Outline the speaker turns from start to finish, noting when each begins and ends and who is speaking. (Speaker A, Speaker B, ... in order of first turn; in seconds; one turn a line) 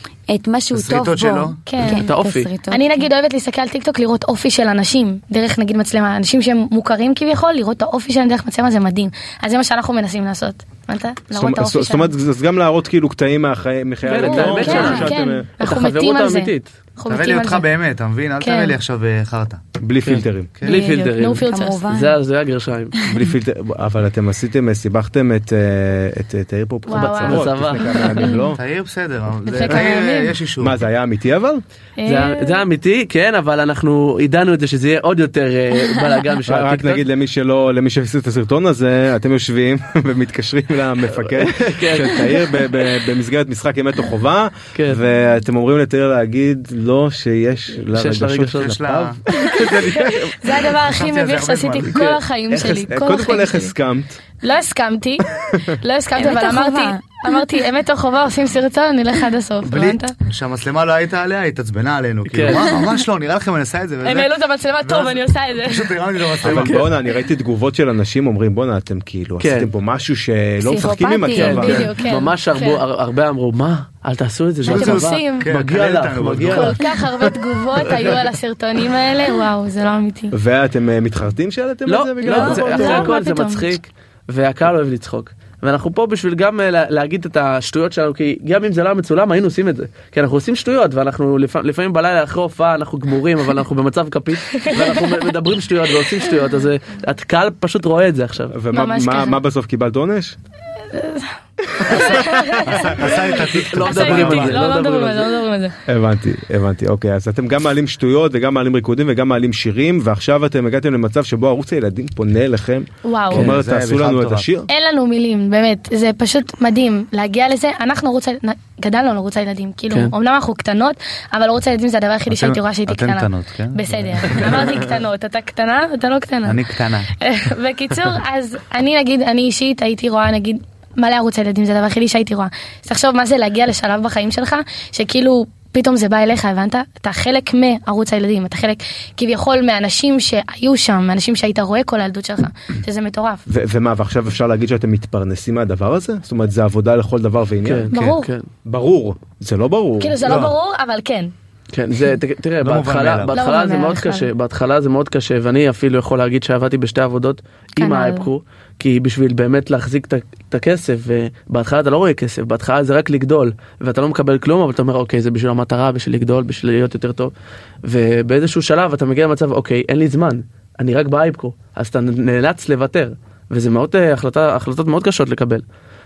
Speaker A: 0.3-3.1
Speaker B: 0.7-1.6
Speaker C: 1.6-2.0
Speaker D: 1.8-2.5
Speaker C: 2.7-12.1
Speaker E: 11.3-15.5
Speaker D: 14.0-16.7
Speaker C: 14.2-17.7
Speaker A: 14.7-14.9
Speaker B: 17.1-19.6
Speaker C: 18.4-18.8
Speaker E: 19.8-20.6
Speaker D: 20.0-23.1
Speaker C: 20.6-21.8
Speaker A: 21.4-22.1
Speaker E: 23.1-28.6
Speaker C: 26.9-28.5
Speaker D: 27.2-28.3
Speaker B: 28.5-30.8
Speaker C: 29.4-30.4
Speaker E: 30.6-31.6
Speaker C: 32.0-32.6
Speaker D: 32.0-37.0
Speaker E: 36.5-50.2
Speaker D: 41.2-42.7
Speaker D: 44.7-45.0
Speaker D: 47.9-48.8
Speaker B: 48.6-49.2
Speaker C: 49.3-53.7
Speaker D: 49.5-50.3
Speaker B: 50.7-52.2
Speaker E: 52.5-54.2
Speaker C: 54.4-60.1
Speaker E: 55.3-55.7
Speaker A: 56.1-57.4
Speaker B: 59.6-66.9
Speaker D: 62.3-62.8
Speaker C: 64.0-66.0
Speaker E: 66.4-71.9
Speaker D: 66.4-66.8
Speaker D: 69.4-69.7
Speaker A: 70.6-71.8
Speaker D: 71.3-76.8
Speaker C: 71.5-72.8
Speaker B: 74.6-76.8
Speaker C: 74.6-75.5
Speaker C: 76.5-80.3
Speaker E: 80.3-83.1
Speaker D: 81.9-98.5
Speaker C: 82.2-83.8
Speaker C: 94.5-95.0
Speaker E: 98.5-100.3
Speaker C: 98.7-99.4
Speaker C: 100.9-103.2
Speaker B: 101.8-104.7
Speaker D: 103.4-105.4
Speaker C: 103.8-105.8
Speaker E: 105.9-114.7
Speaker C: 113.0-113.5
Speaker B: 113.3-114.5
Speaker C: 114.7-143.4
Speaker B: 122.3-124.6
Speaker B: 126.4-127.1
Speaker E: 143.5-148.1
Speaker D: 147.6-148.5
Speaker C: 147.9-148.3
Speaker E: 148.6-150.3
Speaker C: 150.0-151.3
Speaker B: 150.2-150.6
Speaker D: 151.7-167.3
Speaker B: 152.6-153.3
Speaker C: 153.3-154.3
Speaker C: 157.8-158.3
Speaker D: 167.8-175.6